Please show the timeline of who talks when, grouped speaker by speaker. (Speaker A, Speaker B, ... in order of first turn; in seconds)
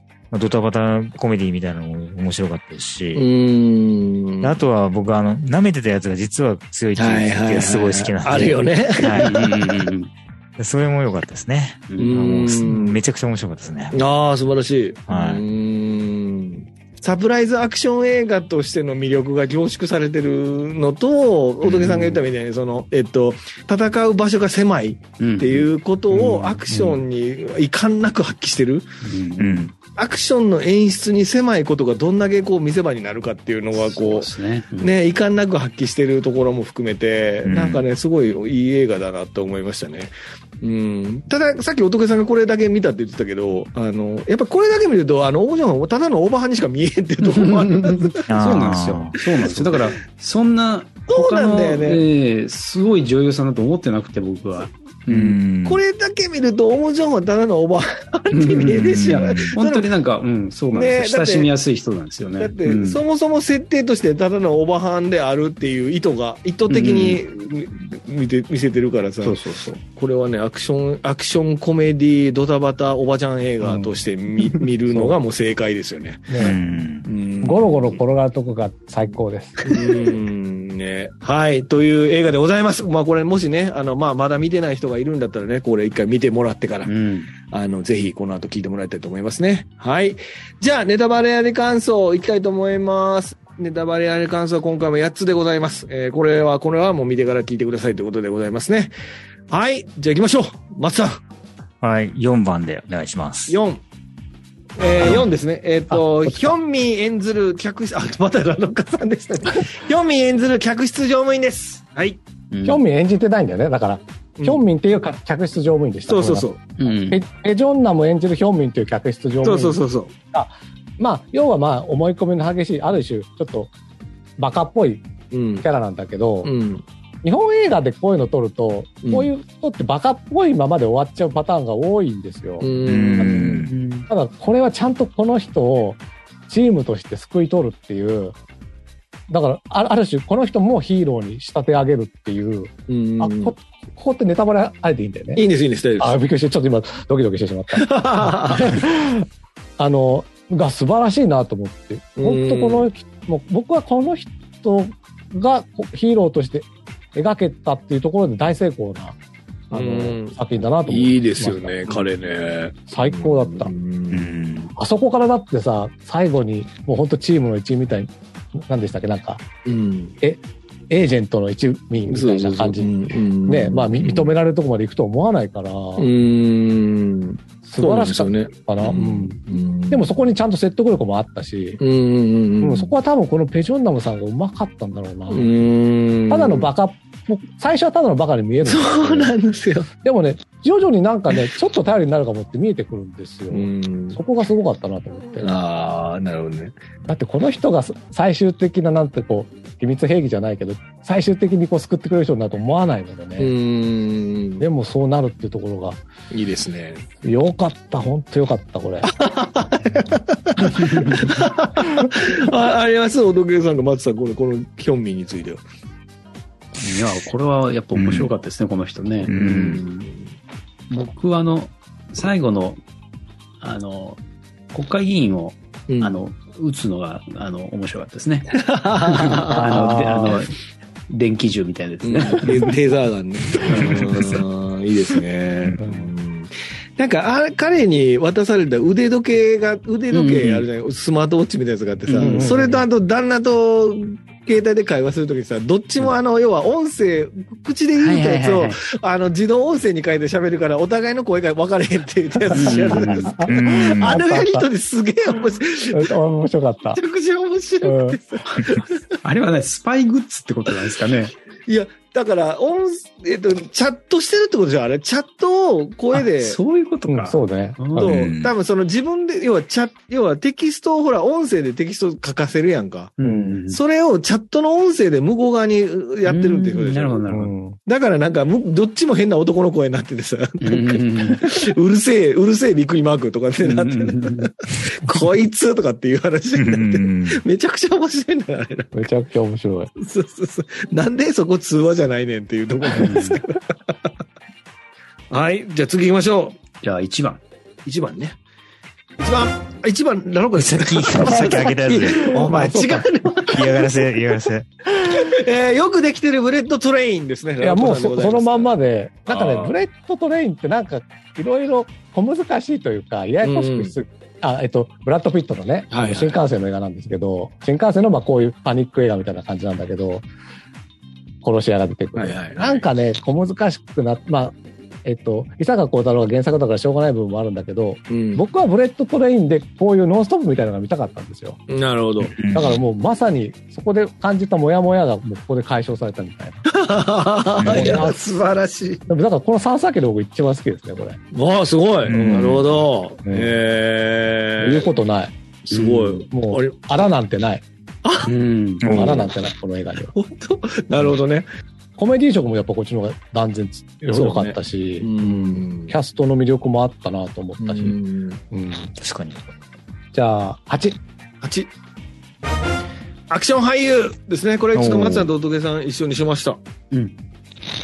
Speaker A: 0.3-3.3, 4.4-9.4, 10.6-14.0, 15.1-15.4, 21.6-22.2, 29.4-29.7, 37.4-37.8, 48.3-49.6, 55.1-55.8, 58.7-59.5, 76.4-77.1, 101.8-103.5, 132.8-133.7, 164.1-164.7, 217.9-218.3, 219.3-219.8, 253.4-254.2, 268.0-268.5, 286.6-287.4, 300.6-302.6, 303.4-304.7, 332.3-332.8, 337.6-338.0, 342.0-342.7, 348.8-349.3, 358.9-359.4, 364.7-365.3
Speaker B: 3.1-4.6, 7.0-9.4, 12.0-13.0, 13.9-28.9, 29.9-48.2, 51.1-52.0, 55.6-59.9, 60.7-61.5, 62.4-69.4, 69.9-76.4, 77.0-78.0, 79.7-86.9, 87.4-98.9, 99.5-101.2, 103.5-103.8, 104.8-112.2, 114.4-114.6, 116.1-116.6, 119.4-120.1, 125.3-125.7, 126.4-126.8, 129.0-129.3, 132.6-133.7, 142.9-143.5, 145.3-146.2, 147.7-148.8, 152.2-152.9, 159.7-164.4, 169.6-170.2, 172.1-174.3, 176.0-180.0, 181.8-182.9, 185.3-186.7, 188.6-189.9, 193.5-194.2, 195.4-196.8, 203.4-204.6, 206.3-207.1, 209.2-215.6, 219.2-220.3, 225.9-226.2, 228.6-230.3, 232.0-256.1, 256.9-259.0, 261.7-266.6, 268.0-273.2, 273.7-277.2, 277.9-289.0, 290.0-293.9, 295.3-296.6, 297.8-298.4, 299.2-303.9, 305.0-308.7, 309.3-309.8, 313.4-313.9, 315.9-316.4, 322.1-322.9, 328.1-328.4, 331.7-332.4, 336.8-339.0, 341.3-344.9, 345.7-346.9, 348.0-348.3, 348.9-349.3, 350.1-351.4, 354.1-355.9, 357.6-358.4, 361.4-361.7, 363.3-366.6
Speaker C: 9.2-10.1, 11.9-12.2, 25.2-26.6, 29.0-29.7, 33.7-34.9, 47.3-55.4, 58.3-63.0, 66.7-67.2, 69.2-69.8, 86.8-87.3, 112.5-112.8, 116.8-117.2, 133.7-134.1, 210.9-211.2, 216.8-219.8, 220.9-222.8, 223.6-224.2, 224.7-230.5, 231.1-232.7, 233.6-234.4, 240.1-240.7, 242.1-242.7, 248.0-248.8, 252.5-253.4, 259.2-261.3, 266.1-268.1, 273.2-273.8, 276.2-277.5, 280.6-281.5, 283.6-284.5, 293.0-293.4, 296.8-297.4, 345.7-346.3, 348.2-348.8
Speaker D: 26.7-27.0, 73.6-73.9, 76.3-76.6, 77.4-79.7, 105.9-106.5, 112.6-119.8, 120.3-123.7, 124.4-125.1, 125.6-126.5, 127.2-133.4, 134.1-138.3, 139.3-145.4, 146.0-149.2, 149.8-159.2, 159.7-162.0, 162.9-163.7, 164.8-169.4, 170.2-176.1, 177.6-181.8, 182.6-185.5, 186.3-189.3, 190.0-195.5, 197.0-203.5, 204.6-206.0, 207.2-209.1, 229.5-230.4, 235.8-236.1, 242.2-242.8, 252.4-254.7, 255.9-257.0, 257.8-258.2, 267.1-268.1, 273.2-273.6, 277.3-277.8, 288.9-289.9, 302.2-303.1, 307.6-320.2, 321.4-331.6, 332.4-336.6, 337.6-338.2, 339.1-341.2, 343.2-343.6, 344.6-345.3, 346.3-347.6, 348.9-350.1, 352.0-355.1, 355.7-357.9, 358.5-358.9, 360.1-361.0